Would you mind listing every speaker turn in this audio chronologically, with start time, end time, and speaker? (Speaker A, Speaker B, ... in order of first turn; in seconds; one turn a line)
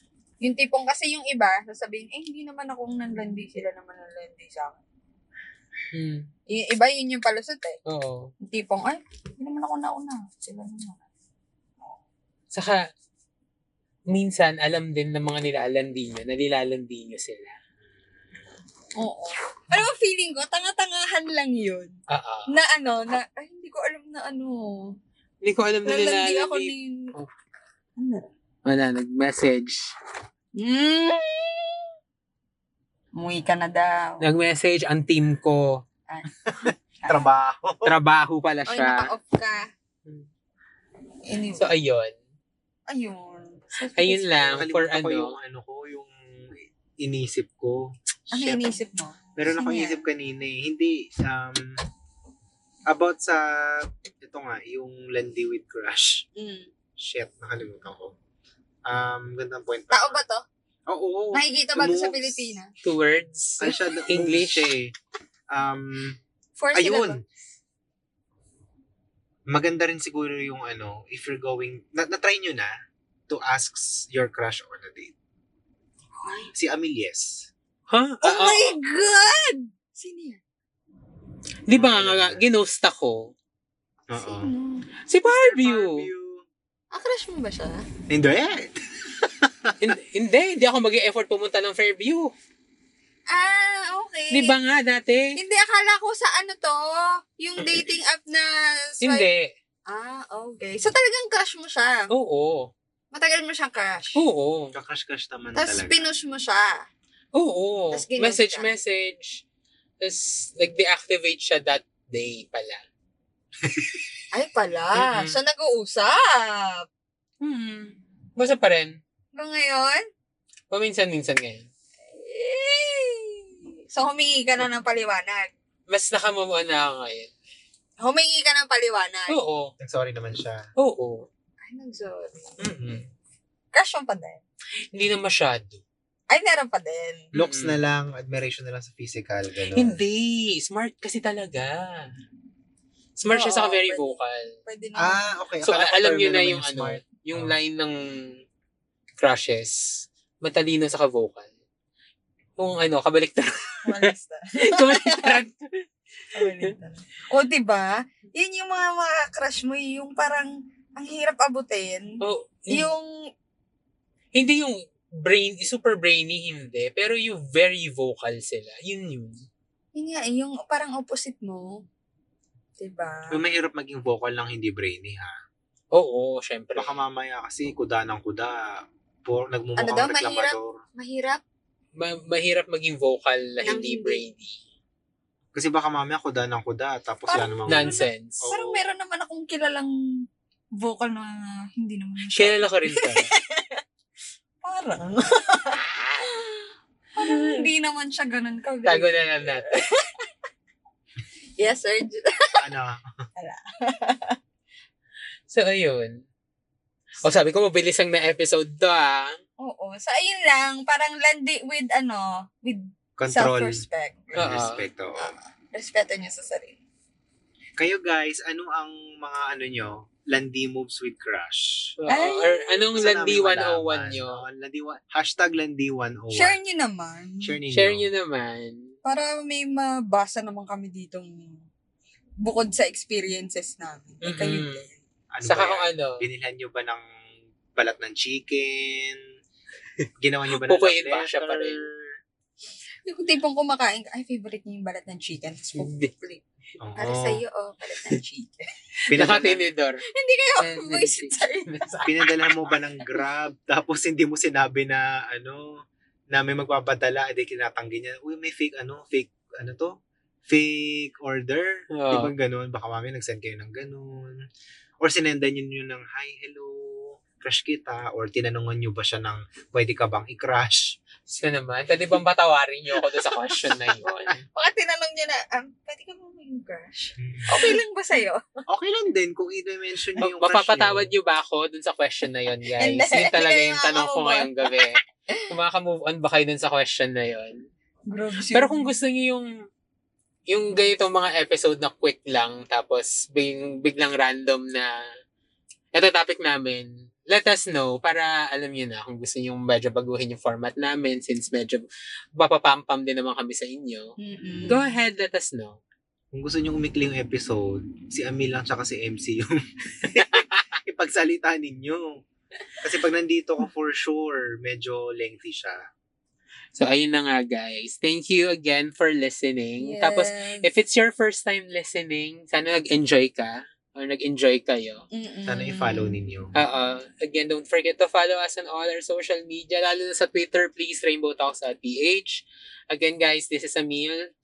Speaker A: 0.4-4.8
Speaker B: 5.9-6.2
Speaker A: 6.5-7.8
Speaker B: 7.9-8.3
Speaker A: 8.4-11.0
Speaker B: 12.5-12.9
Speaker B: 14.1-17.6
Speaker A: 19.0-22.0
Speaker B: 22.1-22.5
Speaker A: 22.5-24.9
Speaker B: 25.4-27.3
Speaker A: 25.9-27.1
Speaker A: 28.0-28.3
Speaker B: 28.6-29.9
Speaker A: 30.6-31.9
Speaker A: 33.1-34.2
Speaker B: 34.2-35.8
Speaker A: 36.1-37.3
Speaker C: 36.5-37.9
Speaker B: 37.9-39.1
Speaker A: 38.7-39.7
Speaker A: 41.3-41.7
Speaker B: 41.6-42.1
Speaker A: 42.9-44.6
Speaker B: 44.0-45.4
Speaker C: 44.5-48.6
Speaker A: 48.3-50.0
Speaker C: 49.4-51.8
Speaker C: 52.9-56.2
Speaker A: 56.4-56.7
Speaker C: 57.0-58.1
Speaker C: 58.9-60.2
Speaker A: 59.9-60.4
Speaker C: 60.9-62.6
Speaker A: 61.3-62.7
Speaker B: 62.8-64.7
Speaker C: 63.6-64.9
Speaker C: 65.5-66.2
Speaker A: 66.6-67.2
Speaker C: 66.7-67.2
Speaker C: 69.5-72.7
Speaker C: 73.3-75.1
Speaker A: 76.2-76.5
Speaker C: 76.5-77.5
Speaker B: 77.9-78.8
Speaker A: 78.2-80.4
Speaker B: 81.7-83.3
Speaker C: 81.7-82.4
Speaker C: 84.1-84.5
Speaker A: 84.2-84.9
Speaker B: 85.1-86.1
Speaker C: 85.2-86.5
Speaker A: 86.9-87.8
Speaker C: 88.1-89.9
Speaker B: 89.8-92.3
Speaker A: 93.3-94.5
Speaker B: 94.3-95.4
Speaker A: 95.3-99.3
Speaker B: 99.0-99.5
Speaker A: 99.9-102.1
Speaker B: 102.1-102.7
Speaker A: 103.1-104.3
Speaker B: 104.2-104.7
Speaker C: 104.7-106.0
Speaker A: 105.5-106.9
Speaker B: 107.3-109.4
Speaker A: 107.9-108.7
Speaker B: 110.0-112.8
Speaker C: 113.6-114.1
Speaker A: 114.3-116.9
Speaker B: 114.9-115.4
Speaker B: 117.4-119.0
Speaker A: 119.3-120.1
Speaker B: 120.7-121.7
Speaker A: 122.1-125.5
Speaker B: 125.9-127.3
Speaker A: 128.0-129.4
Speaker B: 129.3-129.7
Speaker C: 129.8-130.6
Speaker B: 130.8-131.3
Speaker A: 131.7-132.6
Speaker C: 132.7-133.0
Speaker B: 132.7-133.0
Speaker A: 133.7-134.4
Speaker B: 134.9-135.8
Speaker A: 136.3-137.3
Speaker B: 137.3-137.8
Speaker C: 137.3-140.0
Speaker B: 139.8-142.1
Speaker B: 143.2-144.5
Speaker A: 143.3-145.3
Speaker C: 145.0-147.6
Speaker B: 145.6-148.4
Speaker B: 149.2-151.5
Speaker B: 152.6-154.1
Speaker A: 153.8-155.4
Speaker B: 154.6-155.8
Speaker A: 156.3-162.2
Speaker B: 156.4-156.7
Speaker B: 162.2-162.9
Speaker A: 162.7-163.1
Speaker B: 164.3-169.4
Speaker A: 169.9-171.8
Speaker A: 172.8-173.4
Speaker C: 173.3-175.3
Speaker B: 175.9-177.0
Speaker C: 176.8-180.8
Speaker A: 179.8-181.4
Speaker B: 182.0-184.6
Speaker A: 183.6-184.2
Speaker C: 185.5-188.8
Speaker A: 187.3-189.9
Speaker B: 187.7-188.5
Speaker A: 190.8-193.8
Speaker B: 192.3-193.3
Speaker A: 194.6-196.6
Speaker A: 197.2-200.2
Speaker B: 197.2-197.7
Speaker B: 198.8-199.7
Speaker A: 201.6-202.6
Speaker C: 202.6-203.0
Speaker A: 203.4-204.4
Speaker B: 205.5-206.2
Speaker B: 207.2-209.4
Speaker A: 209.6-214.5
Speaker C: 213.2-215.3
Speaker B: 214.4-214.8
Speaker A: 215.2-216.8
Speaker C: 217.8-221.9
Speaker B: 222.0-224.4
Speaker A: 222.1-222.8
Speaker C: 222.9-226.6
Speaker A: 226.3-227.6
Speaker C: 227.4-228.1
Speaker B: 227.7-228.9
Speaker A: 229.1-231.6
Speaker A: 232.4-235.0
Speaker B: 234.2-234.8
Speaker C: 235.3-237.1
Speaker B: 235.4-236.2
Speaker C: 237.8-239.2
Speaker B: 240.0-241.8
Speaker C: 240.2-242.1
Speaker A: 243.1-246.4
Speaker B: 245.8-246.1
Speaker C: 246.8-247.4
Speaker A: 247.0-248.6
Speaker C: 249.1-249.7
Speaker B: 249.1-250.0
Speaker A: 250.1-251.7
Speaker B: 250.6-252.5
Speaker C: 252.1-255.7
Speaker C: 256.3-259.9
Speaker C: 260.5-264.4
Speaker B: 262.0-262.3
Speaker C: 265.0-270.9
Speaker B: 271.3-274.4
Speaker A: 274.6-278.4
Speaker C: 277.2-277.6
Speaker C: 278.7-281.1
Speaker B: 280.2-287.6
Speaker A: 282.8-285.5
Speaker A: 288.1-288.9
Speaker B: 288.5-289.5
Speaker B: 290.5-294.9
Speaker B: 295.9-301.9
Speaker B: 302.4-304.1
Speaker A: 304.2-304.9
Speaker B: 304.7-305.8
Speaker C: 306.3-312.2
Speaker B: 310.2-310.6
Speaker C: 312.8-315.8
Speaker B: 316.8-325.0
Speaker A: 319.8-320.7
Speaker A: 325.1-326.2
Speaker C: 325.5-326.5
Speaker B: 326.6-334.3